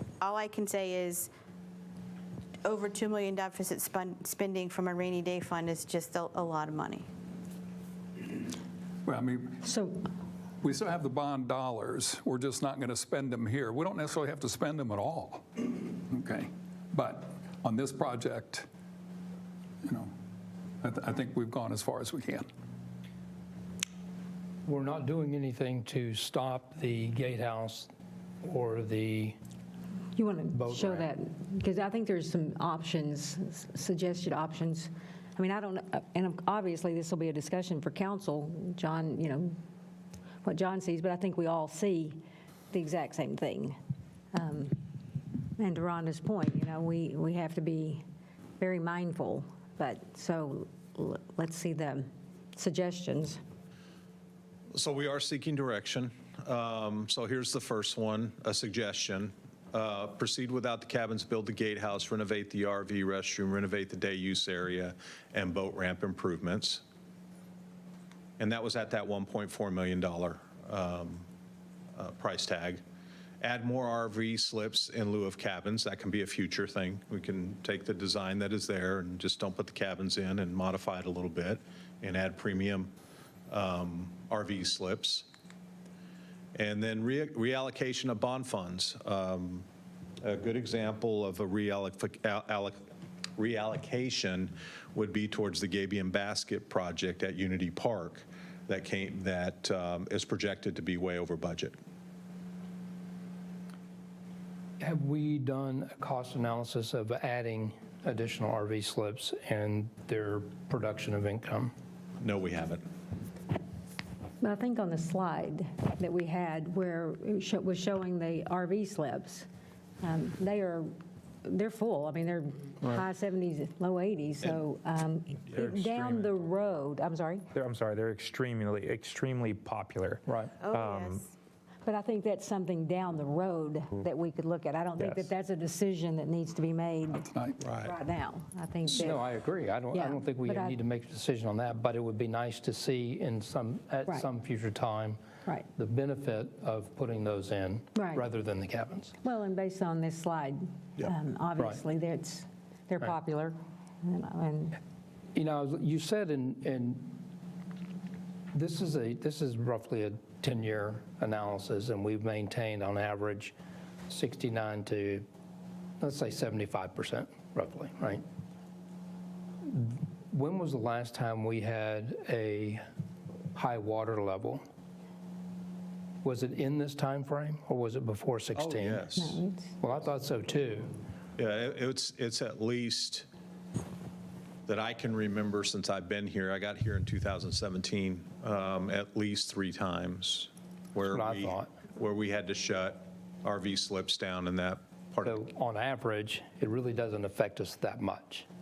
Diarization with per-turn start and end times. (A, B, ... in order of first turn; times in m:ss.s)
0:00.2-0:01.3 A
0:02.6-0:07.1 A
0:09.0-0:09.7 B
0:09.6-0:10.0 C
0:10.6-0:18.7 B
0:19.8-0:20.1 B
0:20.8-0:22.5 B
0:24.7-0:27.9 D
0:28.4-0:29.4 D
0:30.2-0:39.6 C
0:30.5-0:31.1 D
0:40.4-0:42.2 C
0:42.7-0:43.8 C
0:44.3-0:44.8 C
0:45.6-0:48.0 C
0:48.6-0:53.4 C
0:54.7-1:06.8 E
1:08.4-1:11.3 E
1:12.0-1:12.8 E
1:13.4-1:22.9 E
1:23.5-1:25.3 E
1:26.6-1:29.7 E
1:30.2-1:32.8 E
1:33.4-1:41.8 E
1:44.8-1:51.7 D
1:52.2-1:52.8 E
1:54.4-1:59.5 C
2:00.0-2:00.9 C
2:01.4-2:07.5 C
2:05.5-2:05.8 E
2:05.5-2:06.3 F
2:07.5-2:11.2 F
2:10.3-2:10.5 D
2:10.6-2:11.3 A
2:11.8-2:19.3 C
2:15.0-2:15.2 F
2:17.6-2:17.9 E
2:18.9-2:25.2 D
2:19.9-2:20.8 C
2:25.8-2:29.1 D
2:28.0-2:28.2 C
2:29.2-2:34.8 C
2:35.4-2:37.2 D
2:38.5-2:43.5 D
2:44.1-2:45.2 D
2:46.0-2:48.2 D
2:49.7-2:52.8 D
2:53.5-2:54.6 D
2:56.2-3:00.9 D
2:58.6-2:59.4 E
2:59.2-2:59.7 C
3:01.4-3:03.3 E
3:04.7-3:15.4 E
3:11.0-3:11.7 D
3:15.2-3:18.5 D